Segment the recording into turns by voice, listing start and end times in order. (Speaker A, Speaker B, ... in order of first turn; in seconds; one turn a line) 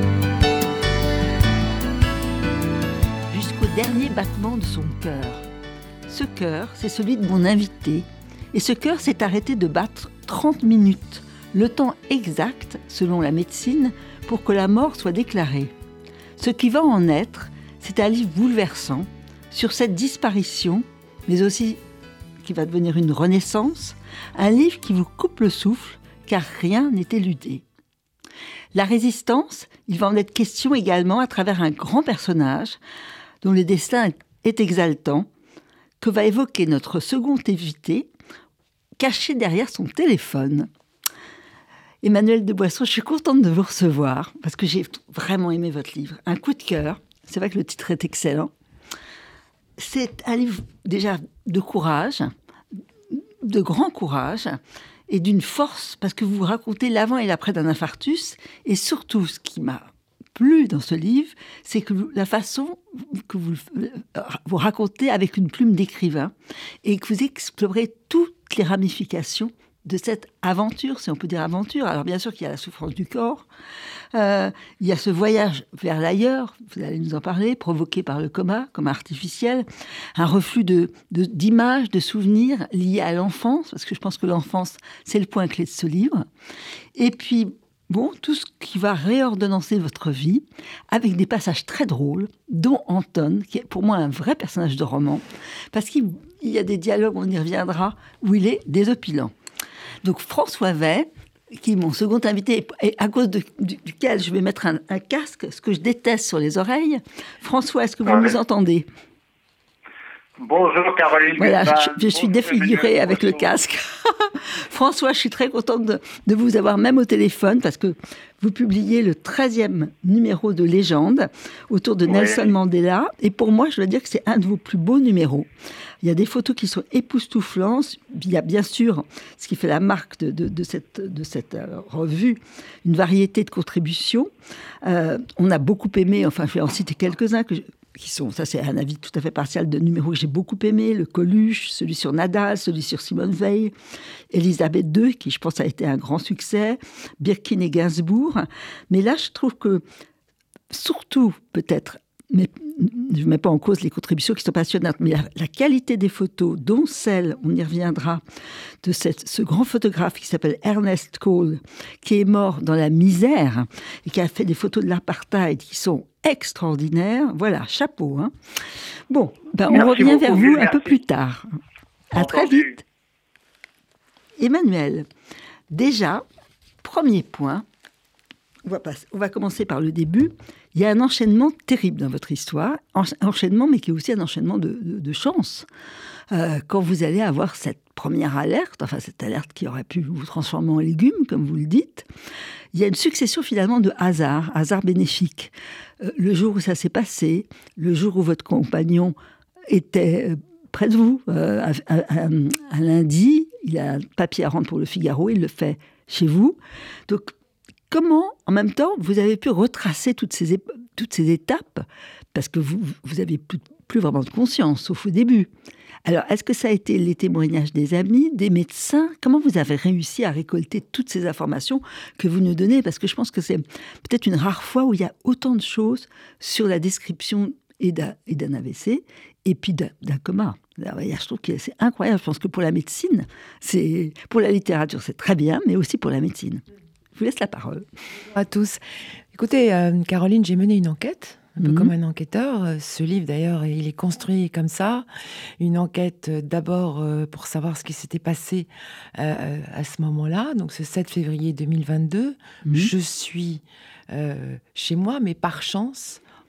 Speaker A: 3.3-5.4
Speaker A: 6.1-15.7
Speaker A: 16.4-21.8
Speaker A: 22.4-27.6
Speaker A: 28.7-32.8
Speaker A: 33.4-35.3
Speaker A: 36.0-38.1
Speaker A: 39.0-40.7
Speaker A: 42.0-48.5
Speaker A: 49.8-52.3
Speaker A: 53.1-73.5
Speaker A: 74.1-79.6
Speaker A: 80.2-86.3
Speaker A: 86.9-99.3
Speaker A: 100.0-108.9
Speaker B: 108.1-108.3
Speaker B: 110.4-113.5
Speaker A: 111.4-125.5
Speaker B: 122.1-122.5
Speaker A: 126.0-134.3
Speaker A: 134.8-143.7
Speaker A: 144.3-149.8
Speaker A: 150.7-158.2
Speaker A: 158.8-168.3
Speaker A: 169.1-171.5
Speaker B: 169.7-171.0
Speaker A: 172.1-172.8
Speaker B: 172.1-172.8
Speaker A: 174.4-175.1
Speaker A: 175.7-176.2
Speaker A: 176.8-177.6
Speaker A: 178.6-185.7
Speaker A: 186.3-192.1
Speaker A: 192.7-199.1
Speaker A: 199.7-207.3
Speaker A: 207.9-215.5
Speaker A: 216.0-236.6
Speaker A: 237.1-237.9
Speaker C: 238.3-238.8
Speaker C: 239.3-245.1
Speaker A: 241.6-241.9
Speaker C: 245.6-256.2
Speaker A: 252.7-252.9